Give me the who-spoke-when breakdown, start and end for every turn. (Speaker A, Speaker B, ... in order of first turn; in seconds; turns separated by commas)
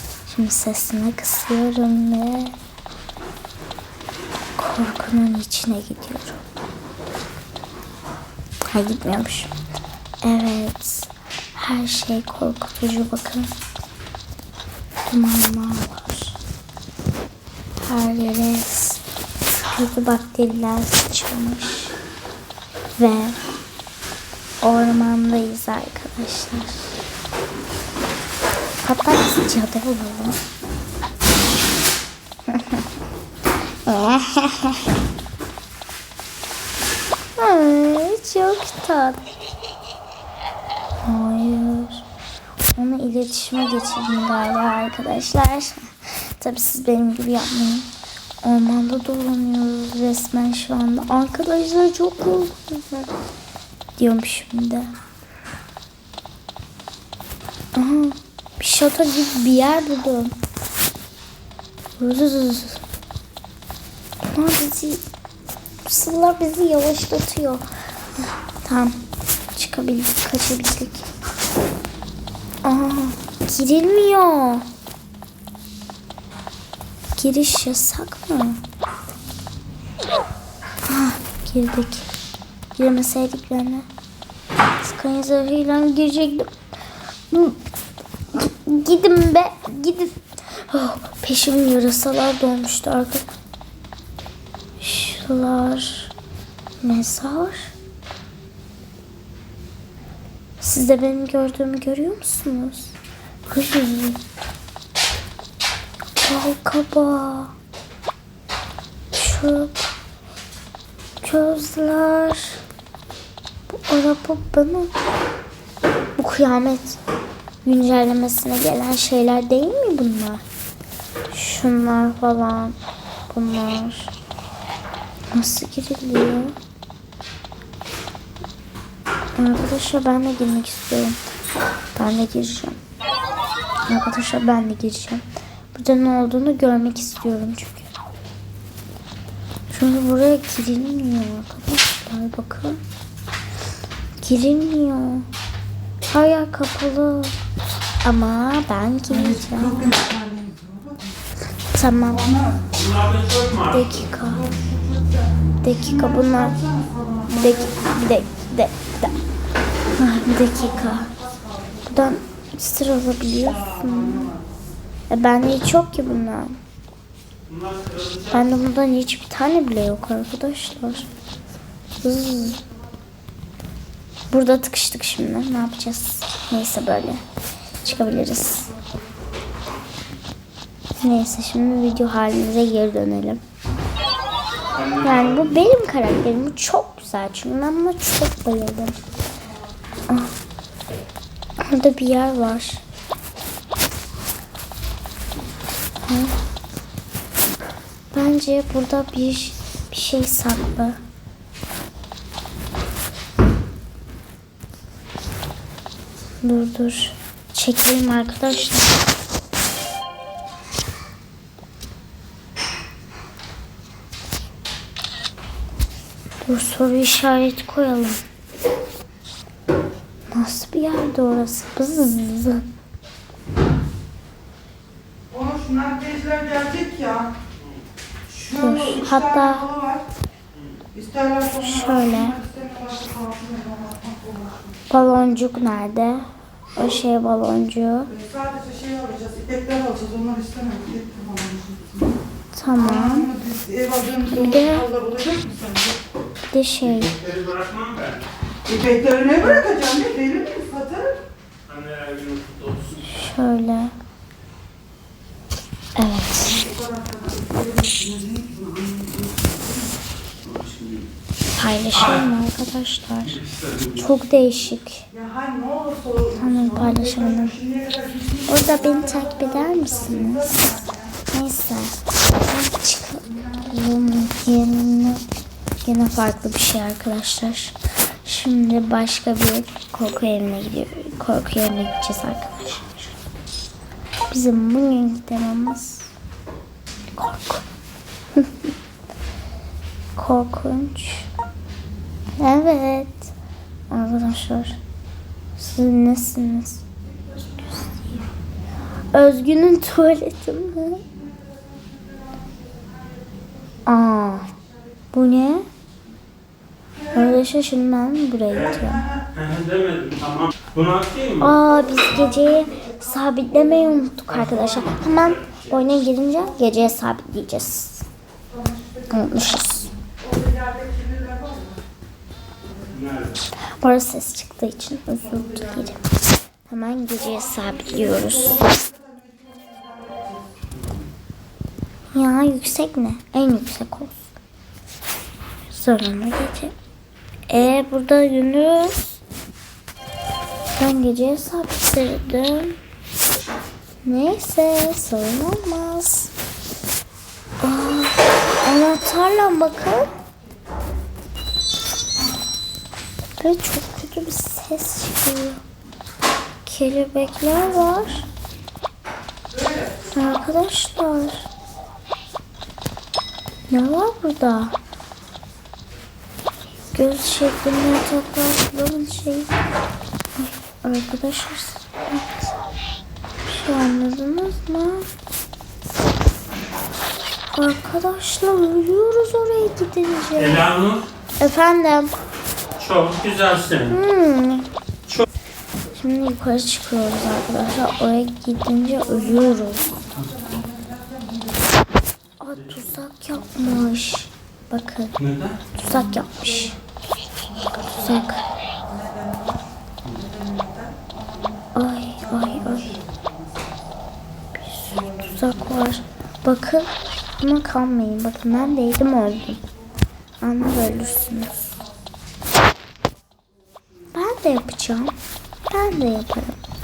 Speaker A: 0.3-2.6, Speaker A: 4.6-6.4, Speaker A: 8.7-9.5, Speaker A: 10.2-13.5, Speaker A: 15.1-16.4, Speaker A: 17.8-21.9, Speaker A: 23.0-23.4, Speaker A: 24.6-26.9, Speaker A: 28.8-30.4, Speaker A: 32.5-32.9, Speaker A: 33.9-35.0, Speaker A: 37.4-39.3, Speaker A: 41.0-42.1, Speaker A: 42.8-47.9, Speaker A: 48.4-53.1, Speaker A: 54.0-54.9, Speaker A: 57.8-60.3, Speaker A: 62.0-62.8, Speaker A: 64.3-65.0, Speaker A: 65.8-67.7, Speaker A: 68.2-69.0, Speaker A: 69.5-71.1, Speaker A: 72.6-74.7, Speaker A: 77.2-78.6, Speaker A: 80.9-82.1, Speaker A: 82.8-83.9, Speaker A: 84.8-86.5, Speaker A: 87.3-87.6, Speaker A: 88.3-93.2, Speaker A: 94.8-96.1, Speaker A: 96.8-97.7, Speaker A: 100.6-104.2, Speaker A: 106.2-107.5, Speaker A: 109.1-109.9, Speaker A: 111.2-112.6, Speaker A: 113.7-114.9, Speaker A: 116.2-117.0, Speaker A: 117.6-120.4, Speaker A: 121.3-122.8, Speaker A: 123.3-124.1, Speaker A: 125.3-126.5, Speaker A: 129.4-131.2, Speaker A: 132.0-132.8, Speaker A: 133.9-137.9, Speaker A: 139.7-142.8, Speaker A: 144.2-145.3, Speaker A: 146.1-147.4, Speaker A: 148.0-150.1, Speaker B: 150.1-150.9, Speaker A: 151.7-152.5, Speaker C: 152.7-153.8, Speaker A: 153.6-154.5, Speaker A: 155.6-156.7, Speaker A: 157.2-159.1, Speaker A: 159.9-161.1, Speaker A: 161.9-164.4, Speaker A: 165.1-166.6, Speaker C: 167.5-168.3, Speaker A: 168.3-171.1, Speaker A: 172.0-172.6, Speaker A: 174.3-177.2, Speaker A: 177.8-178.7, Speaker A: 181.0-183.4, Speaker C: 184.7-185.2, Speaker A: 184.9-189.0, Speaker A: 191.6-192.8, Speaker A: 196.1-196.3, Speaker A: 198.1-201.0, Speaker A: 206.4-209.0, Speaker A: 216.4-218.2, Speaker A: 220.3-222.7, Speaker B: 225.3-227.3, Speaker A: 228.3-229.8, Speaker B: 231.0-231.5, Speaker A: 231.5-232.4, Speaker B: 232.5-234.4, Speaker A: 234.9-238.2, Speaker B: 238.4-241.9, Speaker A: 242.5-243.4, Speaker B: 243.5-244.2, Speaker A: 244.2-245.0, Speaker B: 245.0-246.0, Speaker A: 246.5-247.2, Speaker C: 247.1-248.3, Speaker B: 248.7-251.1, Speaker A: 249.3-249.7, Speaker C: 251.7-253.0, Speaker A: 253.0-253.9, Speaker A: 256.0-256.7, Speaker B: 257.0-258.4, Speaker C: 258.7-259.2, Speaker C: 260.5-261.1, Speaker A: 261.5-263.4, Speaker C: 263.4-263.9, Speaker A: 263.9-265.1, Speaker B: 265.2-266.2, Speaker A: 266.3-267.6, Speaker A: 268.4-275.2, Speaker A: 275.8-283.1, Speaker A: 284.3-286.1, Speaker A: 287.1-287.6, Speaker A: 288.4-288.7, Speaker A: 290.2-291.3, Speaker A: 292.4-293.3, Speaker A: 293.9-294.8, Speaker A: 295.6-296.9, Speaker A: 297.5-298.3, Speaker A: 299.1-301.1, Speaker A: 303.9-304.5, Speaker A: 305.1-305.7, Speaker A: 307.1-309.1, Speaker C: 309.3-311.4, Speaker A: 311.4-318.1, Speaker C: 314.8-315.3, Speaker A: 319.1-319.9, Speaker B: 320.5-321.7, Speaker C: 322.9-323.4, Speaker A: 323.6-326.0, Speaker A: 326.7-328.9, Speaker A: 332.1-334.3, Speaker A: 335.7-336.7, Speaker A: 337.5-339.2, Speaker A: 340.8-342.8, Speaker A: 344.0-346.3, Speaker A: 347.6-350.1, Speaker A: 353.4-355.6, Speaker A: 356.6-358.3, Speaker A: 360.1-361.5, Speaker A: 363.7-364.8, Speaker A: 366.9-369.5, Speaker A: 370.4-372.5, Speaker A: 373.5-375.1, Speaker A: 377.5-380.7, Speaker C: 380.4-381.1, Speaker A: 381.4-382.1, Speaker C: 382.8-383.9, Speaker A: 383.9-384.7, Speaker A: 385.9-390.0, Speaker A: 392.4-396.8, Speaker C: 395.2-395.6, Speaker A: 397.8-398.5, Speaker A: 401.8-403.0, Speaker A: 404.6-409.6, Speaker A: 410.4-411.8, Speaker A: 414.1-415.1, Speaker A: 415.7-416.6